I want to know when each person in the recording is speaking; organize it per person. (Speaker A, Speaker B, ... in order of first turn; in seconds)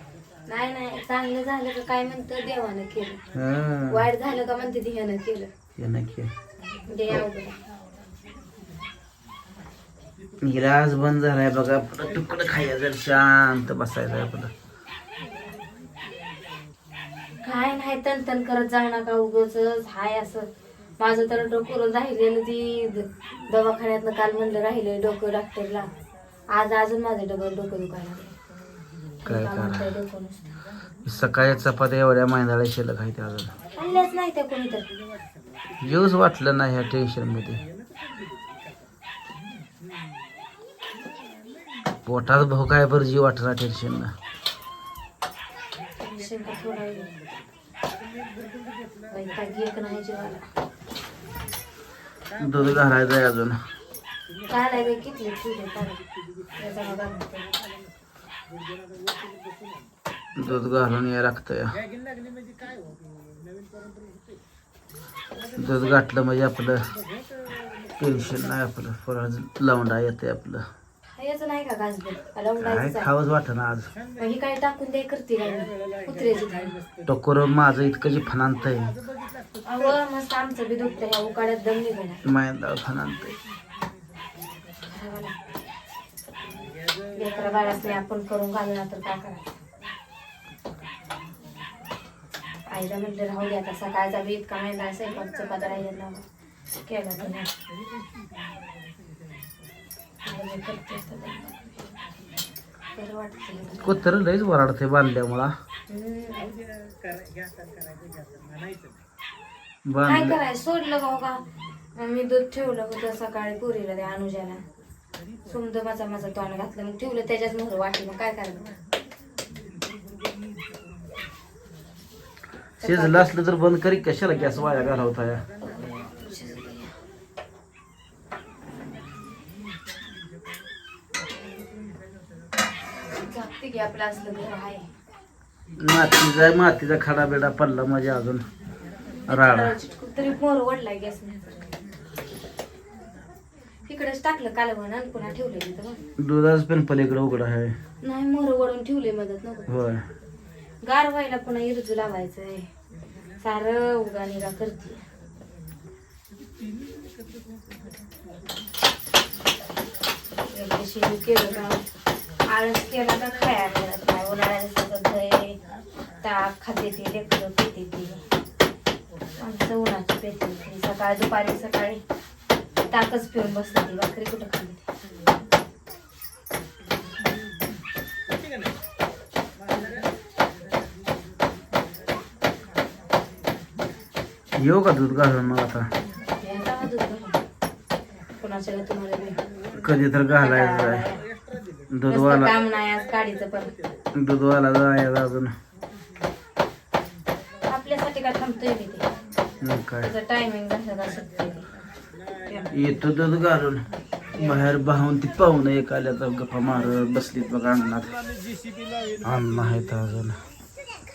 Speaker A: 0.5-3.2, 3.9-5.5, 6.9-7.6, 17.4-25.9, 26.5-28.4, 29.2-30.6, 33.7-34.9, 46.0-47.1, 49.1-50.4, 54.5-56.0, 56.6-57.5, 71.1-73.1, 74.2-76.8, 79.6-82.2, 84.8-85.8, 87.1-89.6, 92.7-96.2, 96.8-97.5, 100.2-102.0, 103.0-104.1, 105.9-106.5, 110.0-114.6, 115.5-118.8, 122.8-123.3, 125.6-126.9, 133.1-134.9, 139.2-141.7, 143.8-146.0, 148.0-149.7, 150.8-152.7, 153.4-155.0, 160.5-161.8, 162.5-165.6, 166.2-168.2, 169.4-172.0, 172.9-174.8, 186.4-187.4, 188.4-189.4, 190.3-191.2, 192.1-193.7, 197.7-199.1, 200.0-201.7, 202.4-202.8, 204.3-204.7
Speaker B: 3.3-4.0, 5.8-6.3, 10.4-14.5, 29.2-29.9, 31.0-33.5, 35.8-37.6, 42.0-44.1, 52.4-53.6, 60.4-61.8, 65.5-66.8, 68.0-70.6, 72.6-73.9, 77.0-79.0, 82.2-83.3, 103.8-105.5, 109.8-110.4, 122.8-125.4, 135.8-138.4, 139.3-139.7, 146.2-147.7, 149.7-150.0, 184.6-185.9, 189.7-191.1, 191.9-192.5, 194.1-195.5, 199.6-200.1, 202.7-203.8, 204.3-208.2, 209.2-210.4